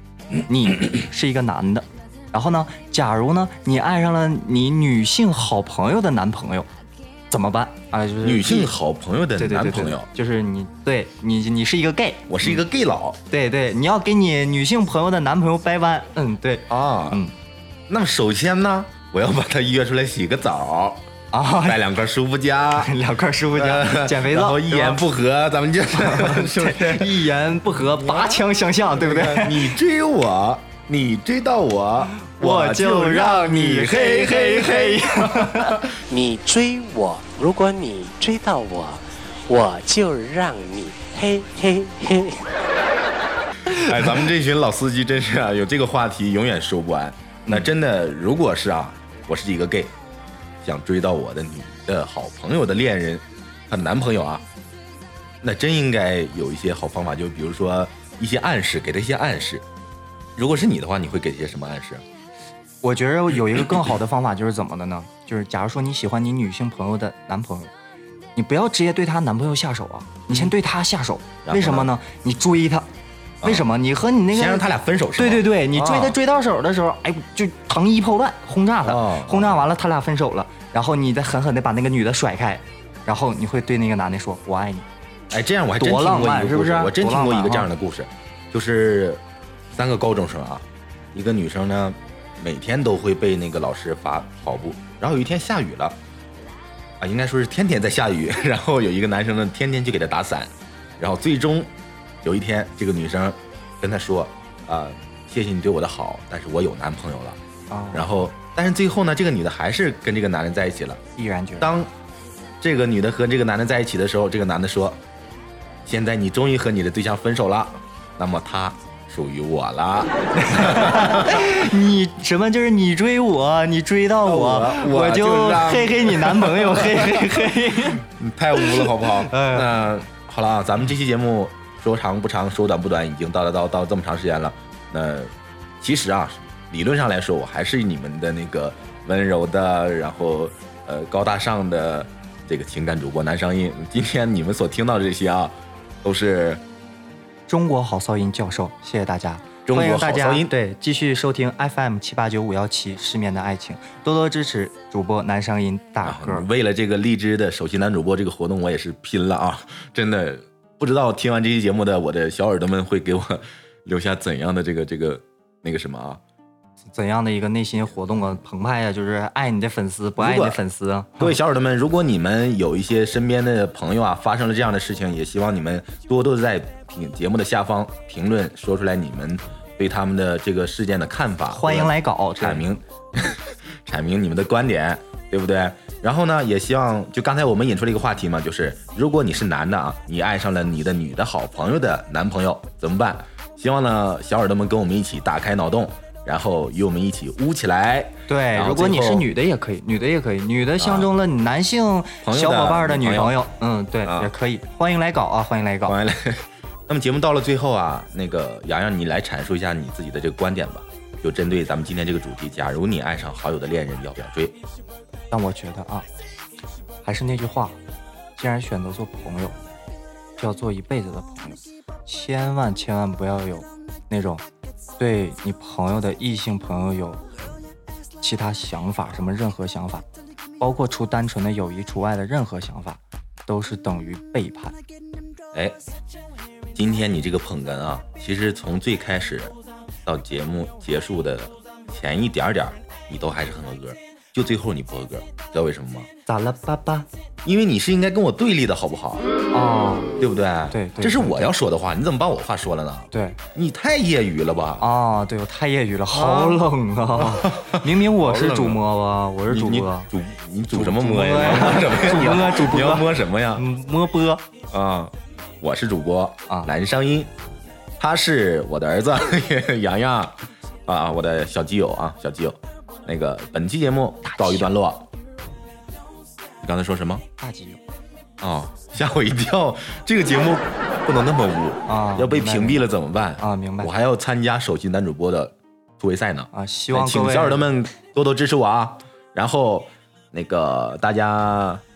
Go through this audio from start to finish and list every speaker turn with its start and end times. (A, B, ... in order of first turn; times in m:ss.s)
0:00.5-0:06.7 A
0:07.3-0:08.7 A
0:08.2-0:10.1 B
0:09.4-0:12.6 A
0:12.3-0:13.2 B
0:13.3-0:17.3 A
0:16.7-0:17.2 B
0:17.9-0:21.0 B
0:21.3-0:21.8 A
0:21.6-0:22.9 B
0:22.8-0:25.0 A
0:23.5-0:35.9 B
0:25.9-0:29.8 A
0:32.3-0:35.9 A
0:36.1-0:42.6 C
0:43.6-0:49.9 B
0:50.6-0:54.4 B
0:55.4-0:59.6 B
1:00.4-1:02.0 B
1:02.8-1:07.7 A
1:08.4-1:12.9 A
1:11.4-1:11.9 B
1:13.4-1:13.7 B
1:13.4-1:24.8 A
1:14.3-1:16.2 B
1:18.8-1:19.7 B
1:25.3-1:36.0 B
1:25.8-1:27.7 A
1:37.0-1:41.7 B
1:42.2-1:47.4 B
1:47.7-1:48.3 A
1:47.9-1:51.0 B
1:51.2-1:51.8 A
1:51.6-1:51.9 B
1:52.6-1:55.0 B
1:55.9-2:01.6 B
2:00.4-2:09.7 A
2:04.2-2:26.6 B
2:27.5-2:36.5 A
2:29.7-2:30.5 B
2:36.0-2:46.2 B
2:46.9-2:51.4 A
2:50.2-2:50.6 B
2:51.2-3:19.3 B
3:01.5-3:02.7 A
3:18.3-3:26.0 A
3:20.8-3:21.1 B
3:22.2-3:23.4 B
3:24.0-3:24.3 B
3:25.9-3:34.6 B
3:35.3-3:36.1 A
3:37.0-3:37.8 A
3:38.4-3:39.6 A
3:40.4-3:44.4 A
3:45.0-3:47.2 A
3:48.2-3:50.0 A
3:50.6-3:54.8 A
3:56.8-3:59.6 B
4:00.1-4:06.1 B
4:06.3-4:07.1 A
4:07.4-4:09.3 B
4:09.5-4:10.2 A
4:10.2-4:14.9 B
4:10.7-4:11.5 A
4:13.1-4:13.4 A
4:14.8-4:20.1 A
4:16.1-4:18.8 B
4:19.5-4:23.6 B
4:20.7-4:24.4 A
4:24.7-4:27.3 B
4:28.0-4:35.1 B
4:34.2-4:34.7 A
4:36.6-4:37.2 B
4:37.4-4:37.8 A
4:38.4-4:51.8 B
4:41.9-4:42.9 A
4:43.4-4:43.9 A
4:46.5-4:47.7 A